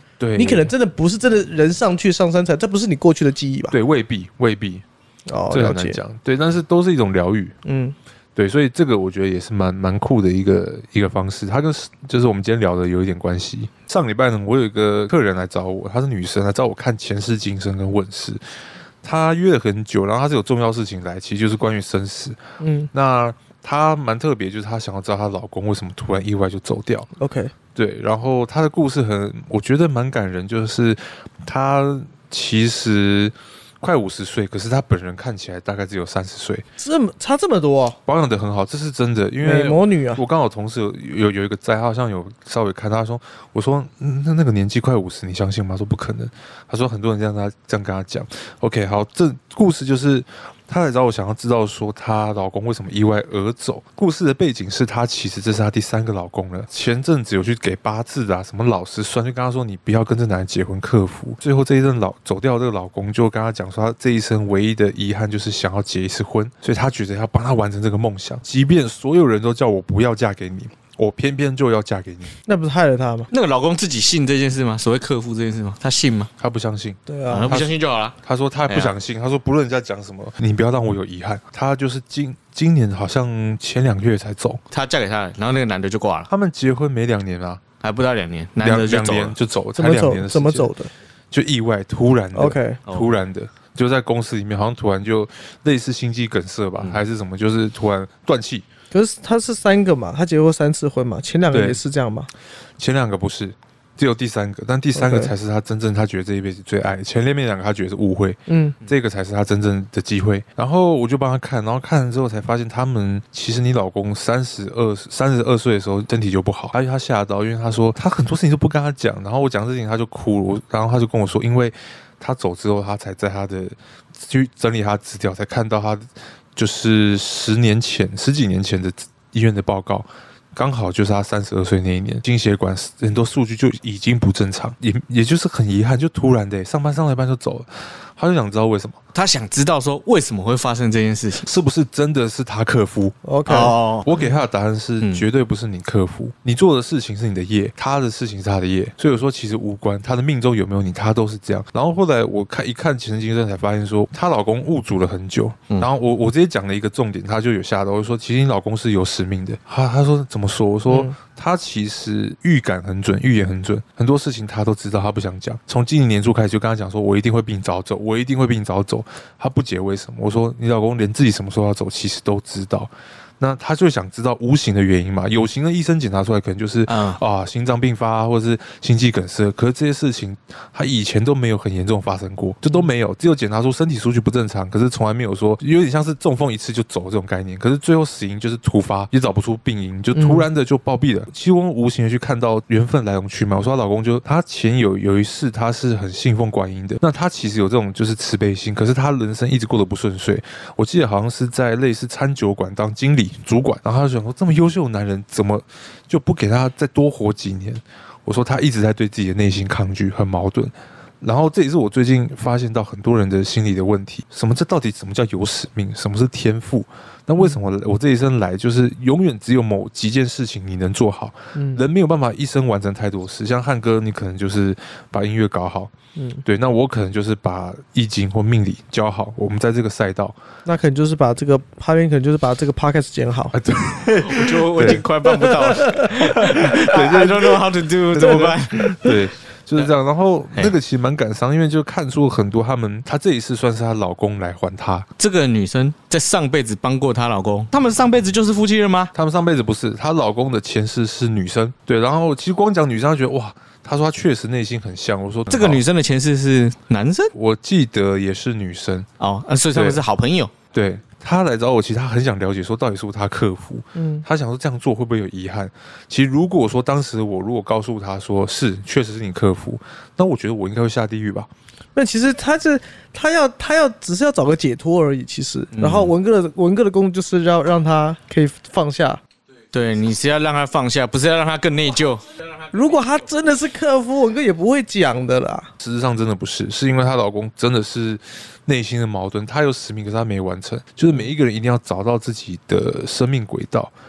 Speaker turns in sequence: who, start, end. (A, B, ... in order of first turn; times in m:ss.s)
0:00.2-0:00.7 A
0:00.4-0:03.8 B
0:03.7-0:04.8 A
0:05.3-0:06.0 B
0:05.5-0:07.6 A
0:07.6-0:08.0 B
0:08.4-0:18.4 A
0:19.0-0:22.4 A
0:22.6-0:22.9 B
0:22.9-0:27.1 A
0:27.2-0:27.5 B
0:27.7-0:36.6 A
0:36.8-0:38.0 B
0:38.0-1:12.3 A
0:39.4-0:40.2 B
1:12.4-1:13.3 B
1:13.3-1:16.3 C
1:16.4-1:17.7 A
1:17.1-1:17.6 B
1:17.3-1:18.2 C
1:18.2-1:24.6 A
1:24.7-1:26.3 C
1:26.3-1:27.6 A
1:27.8-1:29.4 C
1:28.6-1:30.7 A
1:29.8-1:30.9 B
1:31.3-1:38.6 A
1:32.3-1:32.8 B
1:32.9-1:33.1 C
1:38.9-1:42.3 B
1:41.5-1:41.8 A
1:42.8-2:19.0 A
1:44.9-1:45.3 B
1:48.5-1:48.8 B
2:19.1-2:21.5 C
2:21.4-2:23.2 A
2:23.2-2:23.7 B
2:23.4-2:24.1 C
2:24.0-3:45.9 A
2:40.9-2:41.1 B
2:56.9-2:57.2 C
3:10.1-3:10.4 B
3:41.5-3:41.8 B
3:46.1-3:46.4 B
3:46.4-3:50.4 A
3:50.6-3:53.5 B
3:53.5-3:55.0 A
3:54.2-3:59.2 C
3:54.8-3:57.5 B
3:56.2-3:57.6 A
3:58.1-4:05.1 A
3:58.1-3:59.1 B
4:05.2-4:09.1 C
4:09.1-4:15.8 A
4:15.5-4:17.3 C
4:17.3-4:19.1 A
4:19.2-4:20.5 C
4:19.7-4:20.0 A
4:20.7-4:31.5 A
4:23.9-4:24.2 B
4:31.9-4:39.2 B
4:35.7-4:36.1 C
4:39.7-4:42.3 C
4:42.7-4:45.7 B
4:45.8-4:53.9 A